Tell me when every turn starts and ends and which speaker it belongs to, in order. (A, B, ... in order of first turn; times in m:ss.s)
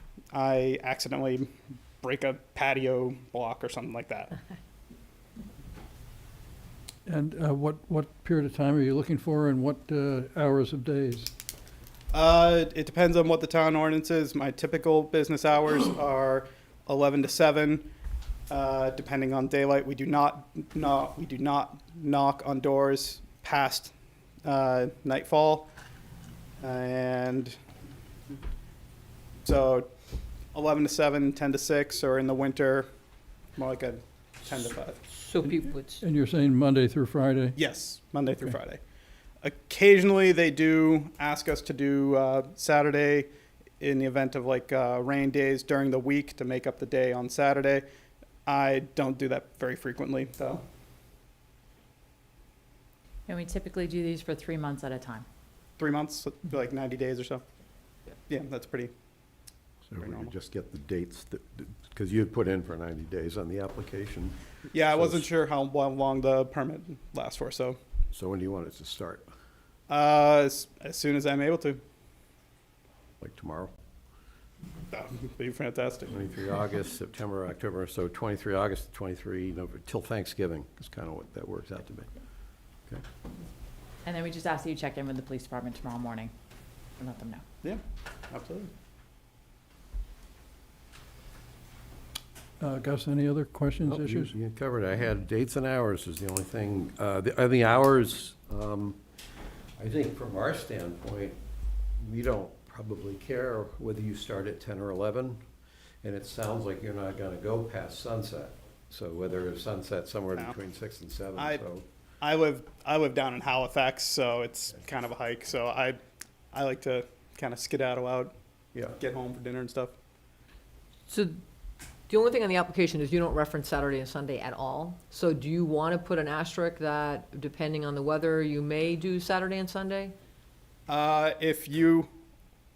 0:00.3-0:04.3 A
0:07.1-0:11.3 B
0:12.1-0:17.9 A
0:18.5-0:23.9 A
0:24.4-0:25.7 A
0:26.6-0:27.6 A
0:29.4-0:29.9 A
0:30.5-0:32.9 A
0:33.6-0:35.0 A
0:35.1-0:36.0 C
0:35.5-0:37.6 B
0:37.6-0:38.8 A
0:39.4-0:43.3 A
0:43.8-0:47.8 A
0:48.4-0:50.6 A
0:53.3-0:55.2 D
0:55.8-0:57.4 A
0:58.3-0:58.9 A
0:59.9-1:04.4 E
1:00.0-1:00.3 A
1:04.7-1:07.8 A
1:04.9-1:05.3 E
1:08.1-1:09.3 E
1:09.9-1:11.8 A
1:13.2-1:13.7 E
1:14.9-1:16.2 A
1:16.1-1:22.1 E
1:24.0-1:26.3 D
1:27.0-1:27.4 D
1:27.6-1:28.7 A
1:32.6-1:34.3 B
1:33.8-1:39.0 E
1:39.8-1:41.4 E
1:42.0-1:45.4 E
1:46.0-1:51.8 E
1:51.4-1:51.6 A
1:52.2-1:56.0 A
1:56.5-1:58.3 A
1:58.9-1:59.9 A
2:01.1-2:01.4 C
2:02.1-2:10.1 C
2:10.9-2:12.1 A